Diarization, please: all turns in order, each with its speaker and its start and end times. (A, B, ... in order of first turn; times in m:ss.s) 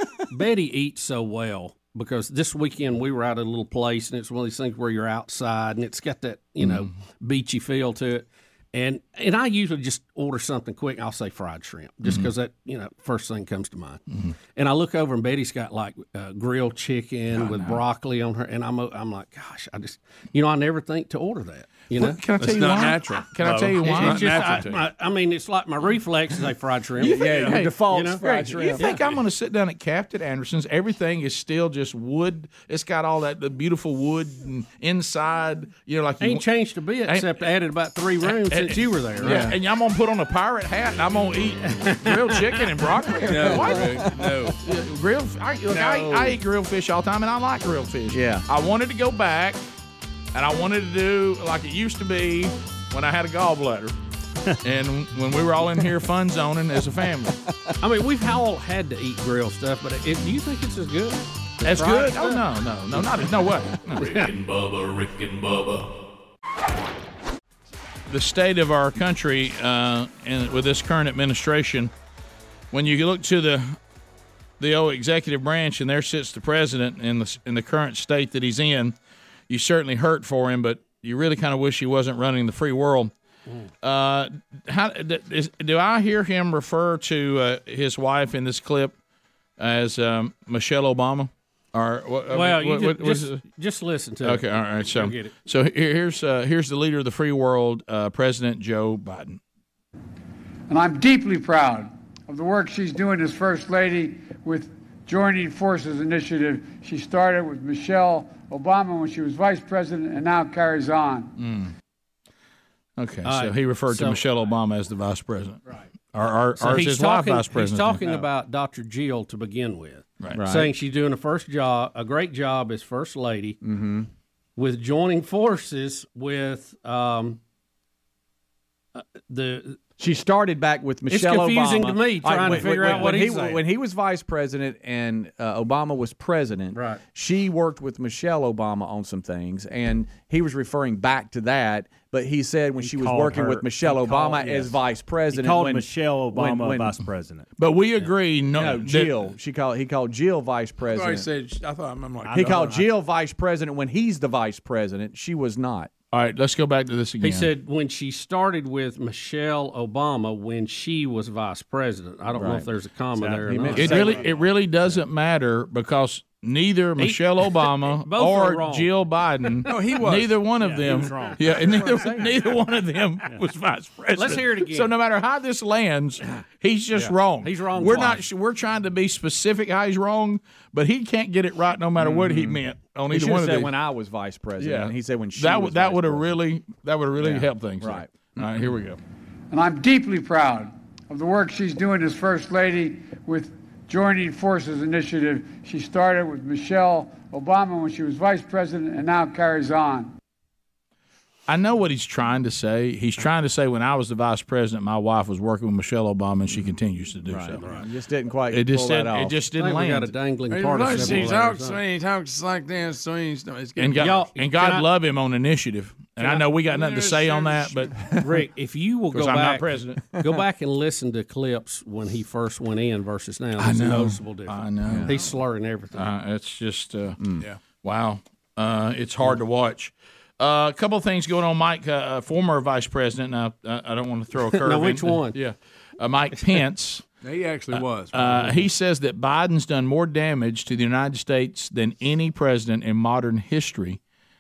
0:00.3-0:14.0 A
0:14.6-0:22.2 A
0:17.3-0:17.8 B
0:22.0-0:24.6 B
0:22.4-0:24.9 C
0:23.8-0:28.2 A
0:27.0-0:28.9 D
0:27.2-0:36.5 B
0:36.2-0:39.5 A
0:37.1-0:37.5 B
0:38.2-0:44.1 B
0:39.2-0:39.6 D
0:41.7-0:42.7 A
0:43.3-0:44.6 C
0:43.4-0:44.5 D
0:44.6-0:49.6 B
0:48.1-0:48.5 D
0:50.3-0:54.0 B
0:54.6-0:57.4 B
0:57.8-1:02.4 A
1:01.6-1:04.2 B
1:04.0-1:04.3 A
1:04.0-1:05.9 E
1:08.1-1:11.9 B
1:12.7-1:13.8 B
1:14.6-1:19.0 B
1:19.5-1:23.1 B
1:23.8-1:29.0 B
1:29.6-1:33.4 B
1:32.3-1:35.4 A
1:34.2-1:39.4 B
1:40.7-1:51.4 F
1:51.4-1:51.7 B
1:53.0-1:55.6 B
1:53.2-1:54.2 A
1:56.1-1:58.2 B
1:56.6-2:03.6 A
2:00.2-2:00.5 B
2:00.3-2:00.7 D
2:03.6-2:04.1 D
2:04.6-2:07.4 A
2:09.0-2:09.8 A
2:10.0-2:27.0 D
2:11.1-2:13.6 A
2:16.7-2:17.0 A
2:22.8-2:24.8 G
2:25.3-2:27.5 G
2:27.6-2:29.2 B
2:28.6-2:31.3 D
2:30.9-2:32.8 C
2:32.3-2:32.8 G
2:32.3-2:35.9 D
2:36.1-2:37.5 B
2:37.2-2:44.2 A
2:42.3-2:42.7 D
2:43.2-2:44.1 G
2:43.4-2:44.3 D
2:43.8-3:03.7 B
2:47.0-2:48.9 A
2:49.7-2:51.6 C
2:50.6-2:52.3 A
2:54.2-2:54.9 A
2:57.0-2:58.2 A
3:02.0-3:06.3 D
3:04.6-3:09.0 B
3:07.2-3:08.3 D
3:09.5-3:20.1 F
3:21.5-3:27.6 B
3:27.2-3:29.4 D
3:28.5-3:30.1 B
3:29.6-3:31.8 A
3:30.5-3:34.2 C
3:33.8-3:37.9 B
3:34.0-3:34.9 A
3:36.2-3:37.9 C
3:38.2-3:46.1 A
3:39.1-3:40.1 B
3:43.6-3:45.2 B
3:45.9-3:57.0 B
3:54.5-3:55.4 A
3:57.2-3:58.7 C
3:57.7-4:04.0 B